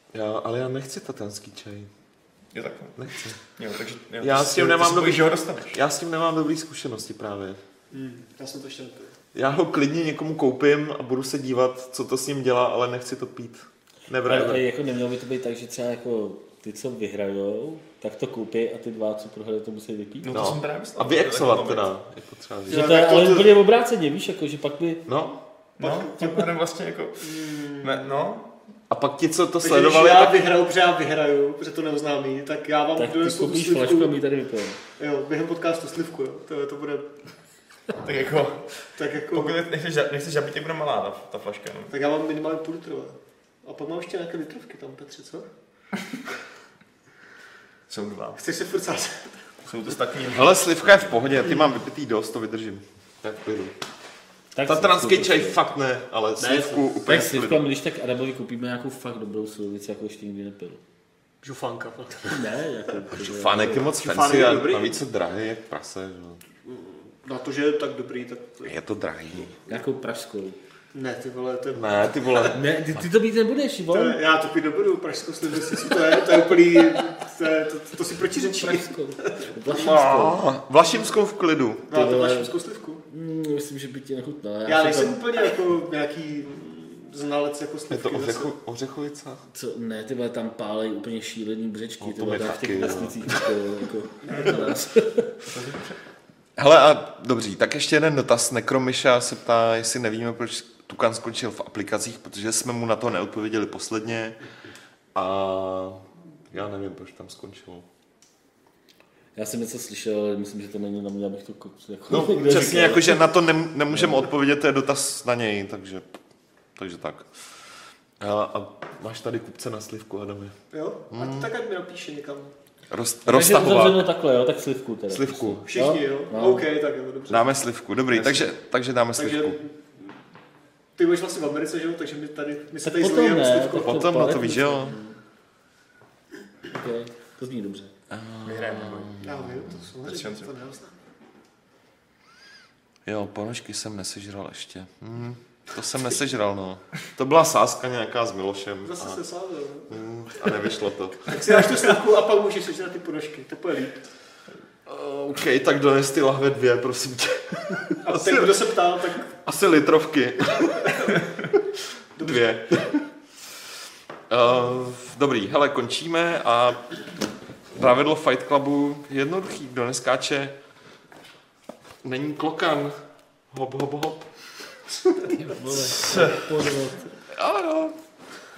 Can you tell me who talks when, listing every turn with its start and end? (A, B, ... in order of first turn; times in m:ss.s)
0:00.1-0:01.9 A
0:02.5-0:03.0 B
0:03.0-0:03.4 A
0:03.6-0:05.8 B
0:04.2-0:07.6 A
0:07.9-0:09.2 C
0:09.3-0:14.7 A
0:14.2-0:20.3 D
0:20.2-0:21.9 B
0:20.3-0:23.5 A
0:22.7-0:23.4 C
0:22.7-0:25.0 D
0:25.1-0:25.4 A
0:25.8-0:26.5 C
0:25.8-0:28.5 B
0:27.2-0:28.1 C
0:28.9-0:30.4 A
0:29.6-0:34.1 C
0:33.0-0:34.8 D
0:35.0-0:37.2 C
0:38.0-0:41.9 B
0:39.0-0:39.6 C
0:41.9-0:45.5 C
0:47.9-0:48.4 B
0:48.4-0:49.5 C
0:49.6-0:50.5 B
0:50.3-0:53.8 A
0:54.6-0:55.6 D
0:54.6-0:57.7 A
0:56.4-0:56.9 C
0:57.1-1:00.8 D
1:01.4-1:02.5 C
1:02.3-1:03.8 D
1:03.1-1:06.4 A
1:03.6-1:05.0 C
1:06.6-1:08.7 C
1:08.6-1:09.5 A
1:09.7-1:10.6 D
1:10.9-1:12.5 C
1:11.7-1:12.6 A
1:12.5-1:14.2 D
1:13.9-1:19.6 C
1:18.2-1:20.4 D
1:19.7-1:21.9 A
1:21.9-1:23.0 C
1:21.9-1:22.5 D
1:23.1-1:25.2 D
1:24.7-1:28.5 C
1:27.9-1:29.4 A
1:29.5-1:35.4 D
1:32.0-1:33.5 A
1:34.2-1:34.7 C
1:34.3-1:34.6 B
1:35.5-1:36.0 B
1:36.6-1:44.4 A
1:45.2-1:46.0 A
1:46.5-1:47.9 A
1:49.4-1:53.3 D
1:52.1-1:56.2 A
1:52.5-1:52.9 C
1:53.9-1:54.2 D
1:56.8-1:57.3 A
1:58.2-2:00.6 A
2:00.7-2:02.5 C
2:01.1-2:01.5 A
2:02.9-2:04.1 A
2:03.2-2:06.6 D
2:05.1-2:05.6 A
2:05.7-2:07.5 C
2:07.3-2:09.6 A
2:08.1-2:08.5 B
2:09.2-2:10.2 C
2:11.0-2:14.0 C
2:12.8-2:15.2 D
2:13.8-2:15.0 A
2:16.7-2:17.9 D
2:18.1-2:19.9 A
2:18.4-2:19.2 B
2:19.2-2:21.0 C
2:20.0-2:20.5 B
2:23.1-2:29.2 A
2:28.8-2:30.0 C
2:29.9-2:31.4 A
2:31.2-2:34.1 C
2:34.9-2:38.7 A
2:38.0-2:39.4 C
2:39.3-2:41.1 A
2:40.9-2:41.2 C
2:42.2-2:42.5 C
2:42.2-2:43.1 A
2:44.3-2:47.0 A
2:47.8-2:50.6 A
2:52.0-2:53.0 A
2:53.5-2:54.3 A
2:55.2-2:57.1 D
2:55.8-2:56.6 B
2:57.3-2:58.0 A